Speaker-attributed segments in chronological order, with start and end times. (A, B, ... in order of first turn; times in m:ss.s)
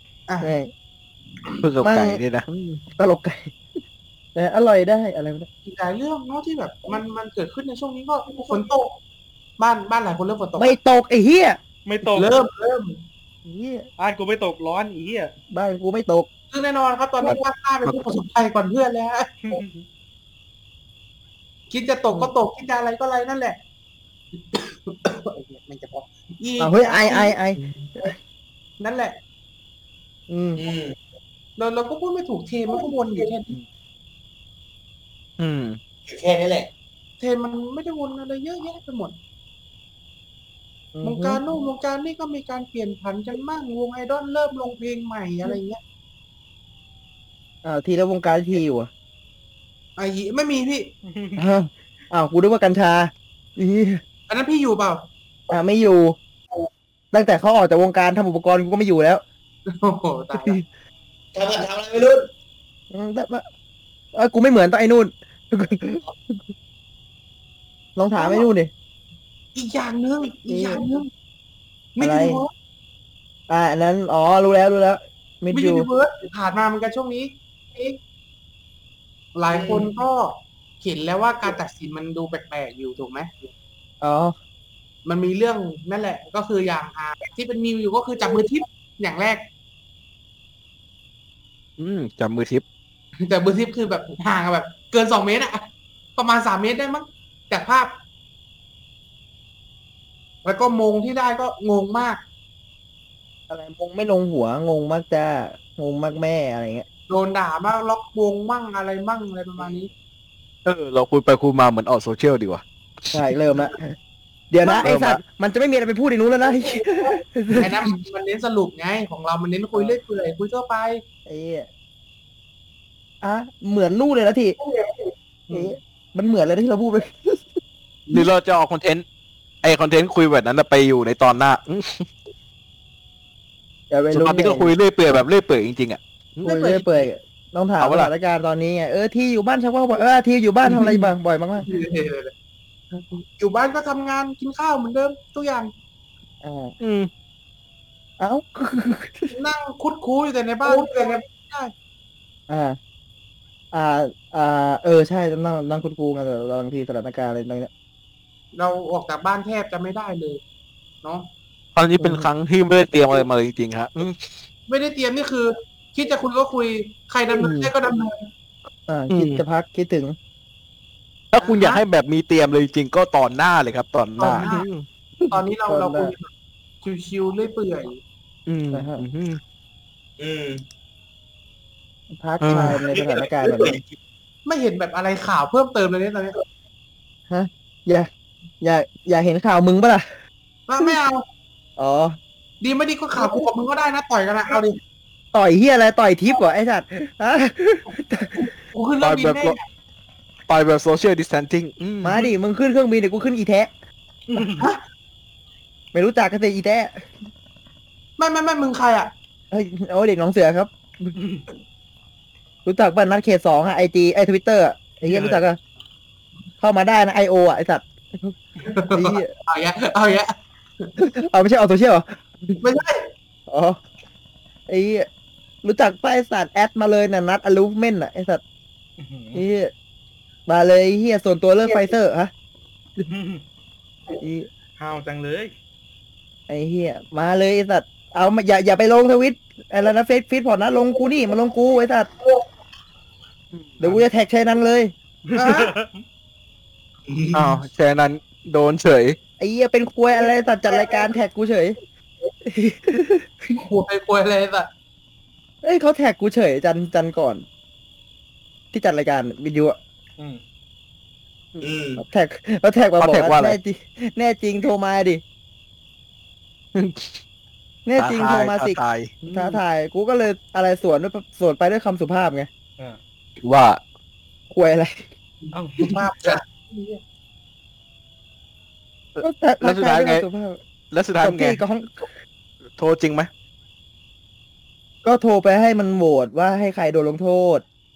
0:00.4-0:00.7 A
0:01.6-0:02.8 B
0:01.8-0:02.2 A
0:03.0-0:03.5 A
0:04.3-0:05.5 A
0:05.6-0:09.0 C
0:09.6-0:10.8 C
0:10.6-0:11.6 A
0:11.8-0:12.3 D
0:12.2-0:13.0 C
0:13.4-0:13.9 A
0:14.0-0:15.3 D
0:15.5-0:16.3 A
0:16.5-0:19.6 C
0:17.8-0:18.1 B
0:19.4-0:19.8 D
0:21.7-0:23.6 C
0:24.4-0:27.4 C
0:26.6-0:28.1 A
0:28.8-0:29.2 C
0:30.3-0:30.6 A
0:30.6-0:31.0 E
0:31.6-0:33.5 C
0:35.4-0:35.8 B
0:36.0-0:36.7 E
0:37.2-0:39.1 C
0:40.9-0:41.4 A
0:41.0-0:45.8 C
0:47.6-0:48.9 A
0:50.0-0:50.9 C
0:51.0-0:51.5 D
0:51.4-0:54.0 A
0:54.3-0:55.1 C
0:55.5-0:56.2 A
0:57.1-0:59.2 A
0:59.7-1:00.6 C
1:00.3-1:00.6 A
1:01.3-1:02.2 E
1:02.9-1:03.4 A
1:04.1-1:06.4 A
1:08.0-1:08.7 A
1:08.2-1:08.5 C
1:09.5-1:11.1 C
1:10.5-1:10.8 A
1:12.0-1:12.5 C
1:12.0-1:12.4 A
1:13.5-1:15.9 A
1:15.5-1:18.0 C
1:19.3-1:23.5 C
1:19.5-1:19.8 E
1:24.0-1:24.3 A
1:25.0-1:29.5 C
1:31.8-1:32.6 B
1:33.2-1:38.0 C
1:40.4-1:42.2 C
1:43.5-1:46.8 A
1:47.1-1:49.9 C
1:50.6-1:52.6 B
1:53.1-1:53.9 A
1:54.5-1:57.9 A
1:54.8-1:55.2 B
1:57.6-2:01.0 C
2:01.2-2:01.7 A
2:03.2-2:04.6 A
2:05.5-2:05.8 C
2:05.5-2:07.6 A
2:08.1-2:09.0 B
2:09.6-2:12.1 B
2:13.9-2:14.7 A
2:14.1-2:16.6 B
2:16.4-2:21.7 A
2:16.5-2:17.0 C
2:17.8-2:18.1 B
2:21.6-2:22.3 C
2:23.1-2:25.7 C
2:26.4-2:26.7 A
2:26.8-2:27.1 B
2:28.2-2:29.4 A
2:29.3-2:31.7 C
2:30.6-2:30.9 A
2:32.5-2:32.8 A
2:33.7-2:37.7 A
2:38.5-2:40.4 C
2:41.0-2:41.3 C
2:41.8-2:44.4 B
2:42.0-2:42.3 A
2:44.7-2:48.3 C
2:48.9-2:50.2 A
2:49.1-2:49.4 B
2:51.3-2:54.8 B
2:51.4-2:51.8 C
2:54.2-2:54.7 C
2:55.3-2:56.1 A
2:55.3-2:56.3 C
2:56.8-2:58.0 C
2:58.5-2:59.4 B
2:58.7-2:59.0 A
3:00.2-3:00.6 E
3:02.1-3:03.8 A
3:02.4-3:02.8 B
3:02.5-3:03.8 E
3:04.4-3:06.4 C
3:07.3-3:08.1 A
3:08.6-3:10.0 A
3:10.7-3:11.2 C
3:11.8-3:12.2 A
3:12.6-3:14.8 C
3:15.3-3:18.5 A
3:18.7-3:19.6 C
3:19.0-3:19.6 B
3:20.5-3:22.2 B
3:22.0-3:23.7 A
3:24.3-3:24.7 D
3:25.9-3:27.1 A
3:28.2-3:29.1 C
3:29.5-3:31.2 A
3:31.2-3:31.4 D
3:32.6-3:35.6 A
3:35.0-3:35.4 D
3:36.6-3:38.4 A
3:38.6-3:40.9 C
3:38.9-3:39.3 A
3:41.0-3:42.6 A
3:42.6-3:43.1 C
3:43.5-3:43.8 A
3:44.7-3:45.1 A
3:45.6-3:48.4 A
3:49.0-3:49.4 D
3:49.3-3:49.7 A
3:50.5-3:52.3 A
3:53.1-3:53.4 D
3:54.2-3:54.5 A
3:54.8-3:55.5 D
3:56.5-4:02.1 A
4:03.5-4:03.8 B
4:03.8-4:04.9 A
4:05.3-4:06.0 D
4:05.4-4:05.7 C
4:07.1-4:07.5 E
4:07.3-4:09.2 B
4:09.4-4:11.8 A
4:12.4-4:13.6 A
4:13.6-4:14.7 C
4:15.6-4:17.4 A
4:18.7-4:19.8 A
4:21.6-4:22.0 E
4:22.0-4:25.2 A
4:23.0-4:23.6 B
4:26.7-4:27.2 B
4:27.8-4:32.5 A
4:28.0-4:29.6 B
4:33.4-4:33.8 B
4:34.5-4:35.0 A
4:35.4-4:37.0 C
4:35.5-4:35.9 D
4:39.2-4:40.2 B
4:39.2-4:40.6 A
4:40.9-4:41.6 B
4:41.2-4:42.0 A
4:42.8-4:43.3 B
4:45.0-4:47.6 A